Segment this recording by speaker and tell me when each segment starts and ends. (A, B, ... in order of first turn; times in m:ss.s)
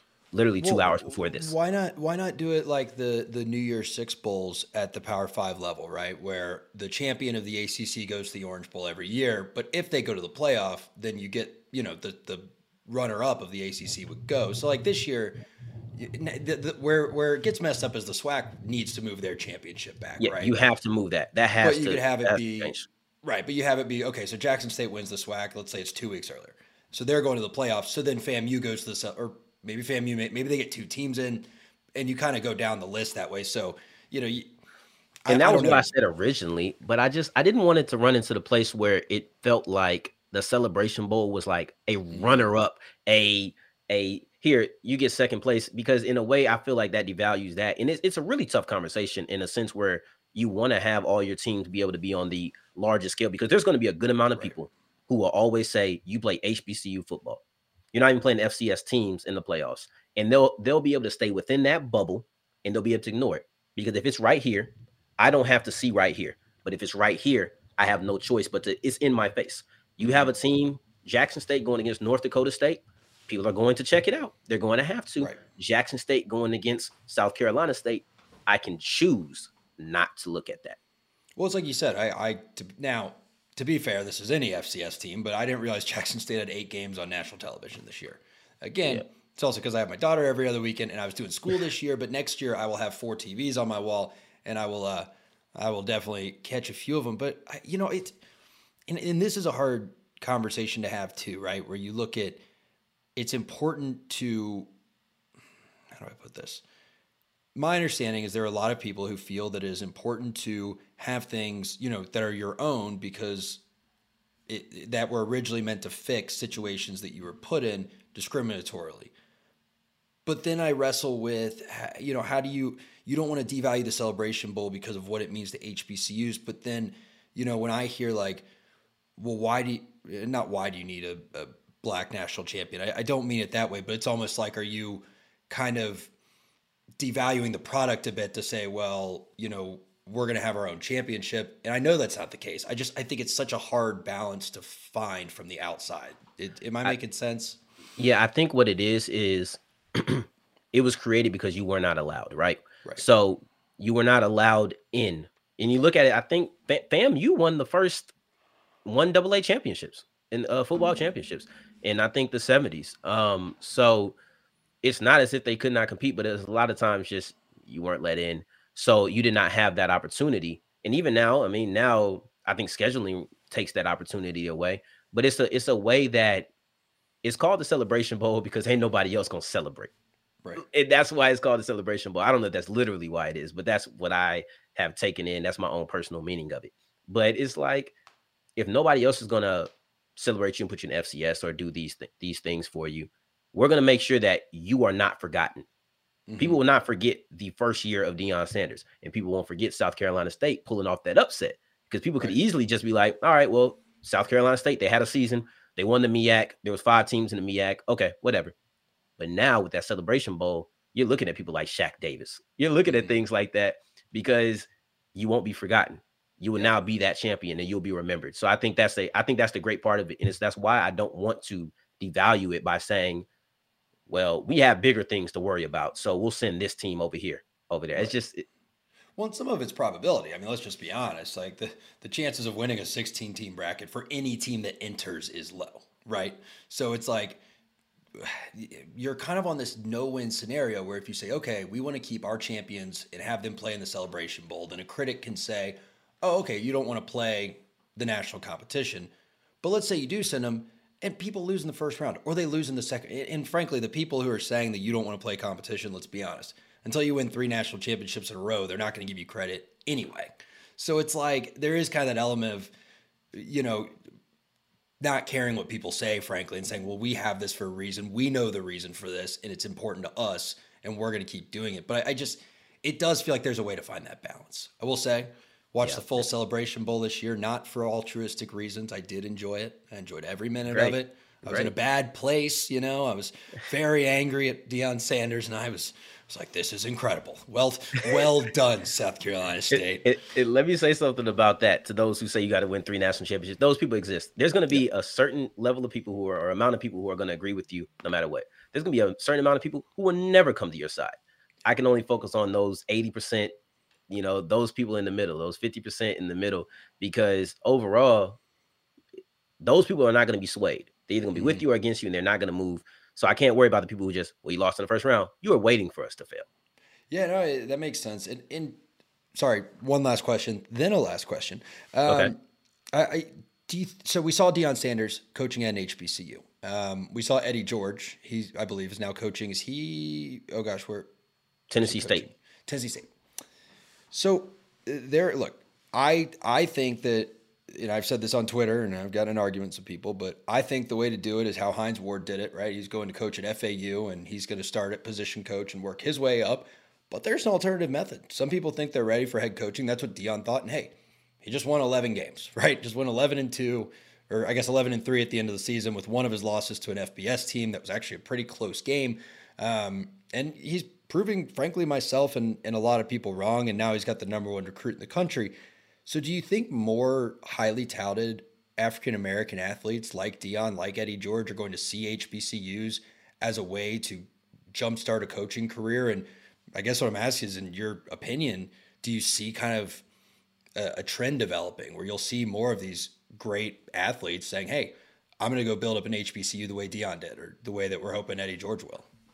0:00.3-0:01.6 A
0:00.6-0:15.4 B
0:16.0-0:20.6 B
0:20.2-0:22.9 A
0:21.6-0:34.5 B
0:35.3-0:35.9 B
0:35.3-0:57.4 A
0:42.1-0:42.5 B
0:57.9-1:20.8 A
1:10.0-1:10.3 B
1:21.4-1:38.2 B
1:38.9-1:42.4 B
1:43.2-1:44.7 B
1:45.9-1:46.6 B
1:47.6-1:53.6 B
1:54.5-1:59.1 B
2:00.3-2:08.5 B
2:09.2-2:16.1 B
2:17.0-2:27.6 B
2:28.0-2:38.1 A
2:38.8-2:44.2 A
2:44.8-2:56.5 A
2:57.2-2:59.9 A
3:00.6-3:07.9 A
3:08.6-3:15.6 A
3:16.3-3:16.6 B
3:16.4-3:28.6 A
3:29.2-3:43.3 A
3:32.9-3:33.1 B
3:44.1-3:48.5 A
3:49.2-3:57.4 B
3:58.1-4:22.7 B
4:23.3-4:23.9 B
4:25.0-4:50.1 B
4:40.7-4:41.7 A
4:49.7-5:01.1 A
5:01.6-5:03.5 A
5:04.1-5:08.4 A
5:09.6-5:16.5 A
5:11.3-5:11.6 B
5:17.1-5:18.8 B
5:19.3-5:22.4 B
5:22.9-5:31.1 B
5:31.7-5:32.2 A
5:31.8-5:33.1 B
5:34.1-6:20.0 B
6:20.8-6:29.1 B